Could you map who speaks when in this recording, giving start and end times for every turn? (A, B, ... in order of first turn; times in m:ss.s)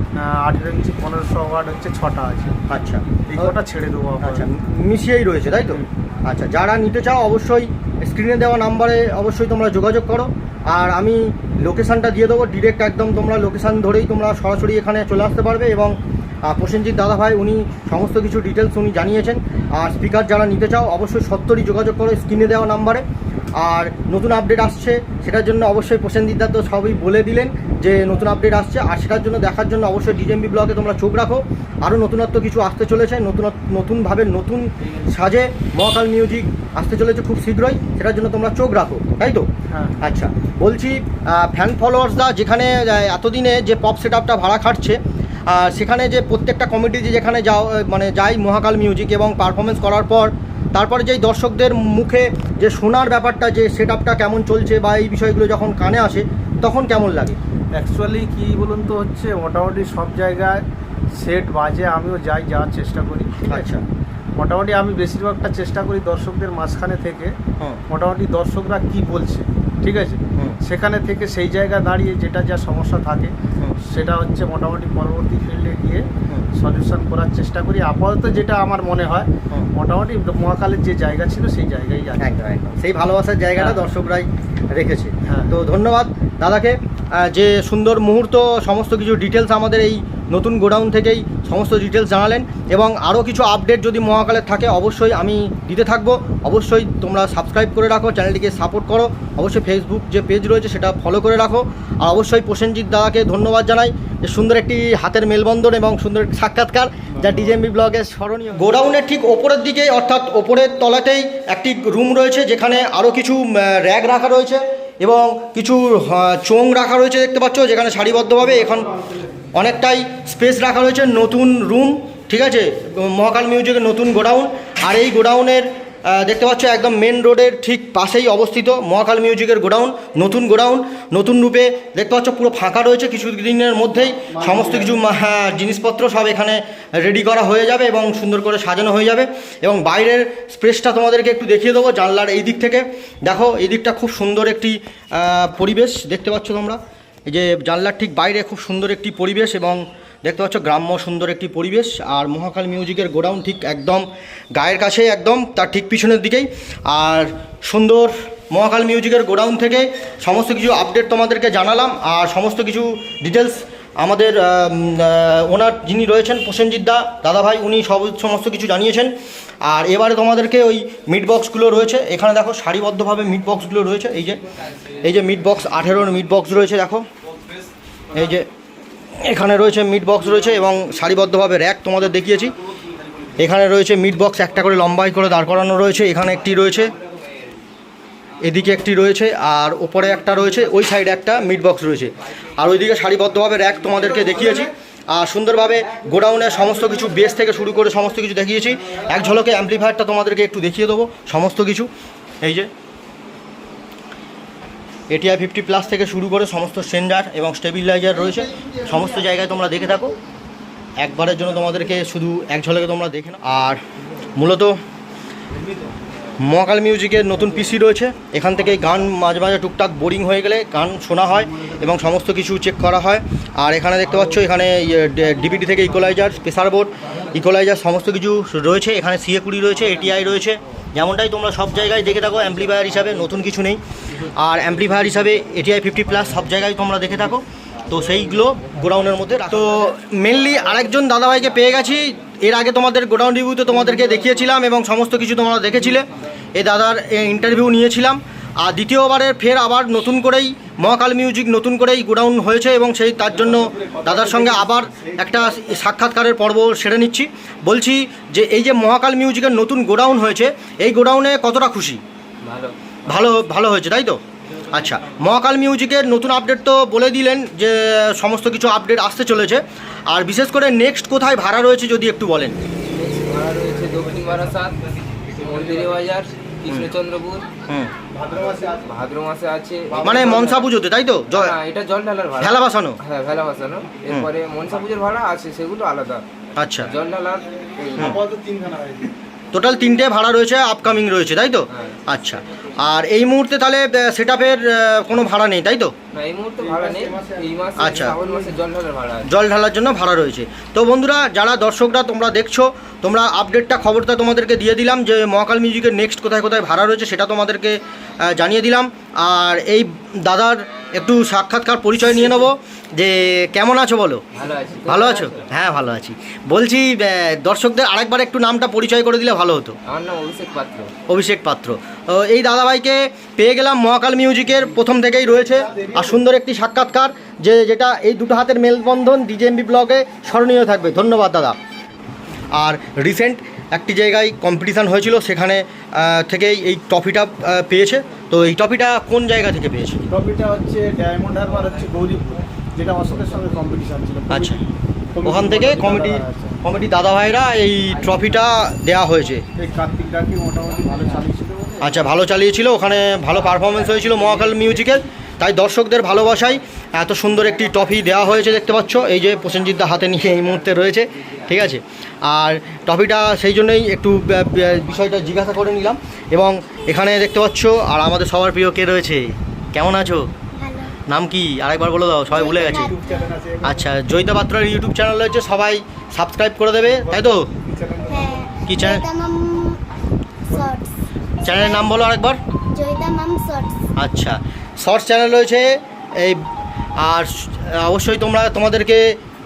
0:00.2-0:02.6 A
0:02.7-0:03.5 B
0:03.2-0:04.5 A
0:04.2-0:23.0 B
0:23.6-0:39.5 B
0:39.7-0:40.0 A
0:40.0-0:57.4 B
0:57.7-1:03.7 A
1:03.4-1:03.8 B
1:04.4-1:07.3 A
1:07.9-1:22.4 A
1:22.2-1:58.9 B
1:23.6-1:23.8 A
1:25.3-1:25.5 A
1:59.5-2:49.1 B
2:14.3-2:14.9 A
2:49.6-2:54.4 B
2:55.0-2:57.0 B
2:58.1-2:58.5 B
2:59.2-3:02.5 B
3:03.4-3:06.9 B
3:08.4-3:21.9 B
3:22.4-3:22.7 B
3:25.1-3:30.2 B
3:31.0-3:33.8 B
3:34.3-3:34.8 B
3:36.4-4:22.0 B
4:22.4-4:22.8 C
4:23.0-4:32.6 B
4:32.9-4:34.8 C
4:35.3-4:37.5 C
4:38.1-4:38.8 A
4:38.8-4:40.6 C
4:39.9-4:40.4 A
4:40.0-4:41.6 B
4:41.3-4:46.2 C
4:42.4-4:43.0 B
4:46.6-4:46.9 B
4:46.8-4:48.1 C
4:47.9-4:49.1 A
4:49.5-4:55.9 B
4:51.7-4:52.0 C
4:56.1-4:59.3 C
4:56.6-4:58.5 A
4:57.8-4:58.2 B
4:59.2-5:14.2 B
5:14.3-5:15.4 C
5:14.9-5:19.8 B
5:19.9-5:20.9 C
5:21.1-5:31.6 B
5:32.5-5:40.0 B
5:40.1-5:44.6 A
5:44.3-5:44.6 B
5:45.1-5:46.6 A
5:45.2-5:49.4 B
5:47.9-5:48.5 C
5:49.6-5:52.0 A
5:51.8-6:10.3 B
6:10.5-6:11.0 D
6:11.1-6:12.9 B
6:12.3-6:13.3 D
6:12.5-6:13.8 A
6:13.6-6:17.5 B
6:17.0-6:18.5 A
6:18.1-6:19.8 D
6:18.7-6:19.0 B
6:20.5-6:20.9 D
6:21.4-6:22.4 B
6:21.4-6:22.0 D
6:22.7-6:23.8 D
6:24.0-6:26.4 B
6:27.0-6:29.2 B